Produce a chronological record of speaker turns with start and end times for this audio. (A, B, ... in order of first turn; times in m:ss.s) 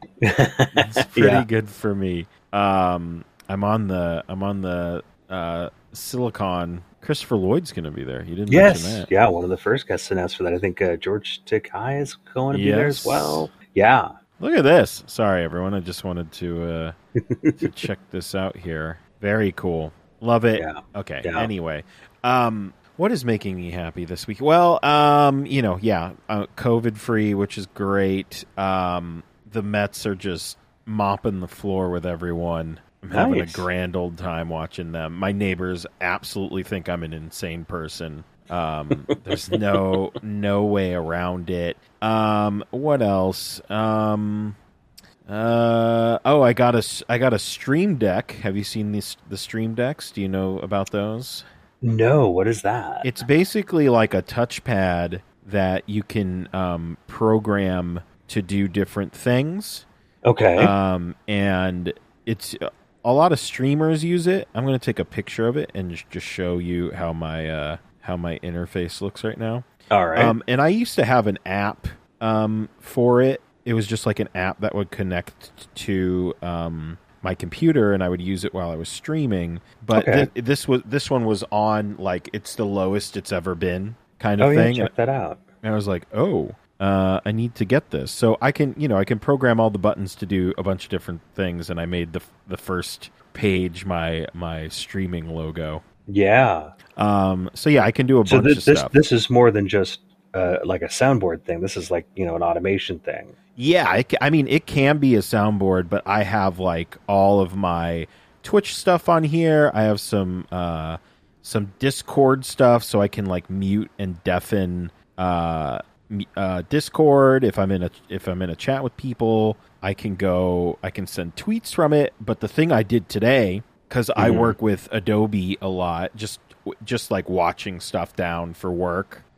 0:00.2-0:01.4 A
0:00.7-0:09.1 B
0:08.5-0:14.1 A
0:12.5-0:13.5 B
0:14.4-0:17.0 B
0:17.2-0:17.7 A
0:17.6-0:44.6 B
0:20.6-0:21.5 A
0:33.1-0:33.7 A
0:39.1-0:39.9 A
0:45.3-0:51.4 B
0:51.8-0:53.1 A
0:53.0-0:59.8 B
1:00.2-1:00.7 A
1:00.6-1:24.9 B
1:09.9-1:10.4 A
1:19.9-1:20.3 A
1:24.4-1:25.4 A
1:25.6-1:35.8 B
1:36.1-1:36.8 A
1:36.9-1:39.0 B
1:38.2-1:43.4 A
1:43.6-2:09.2 B
2:04.2-2:04.6 A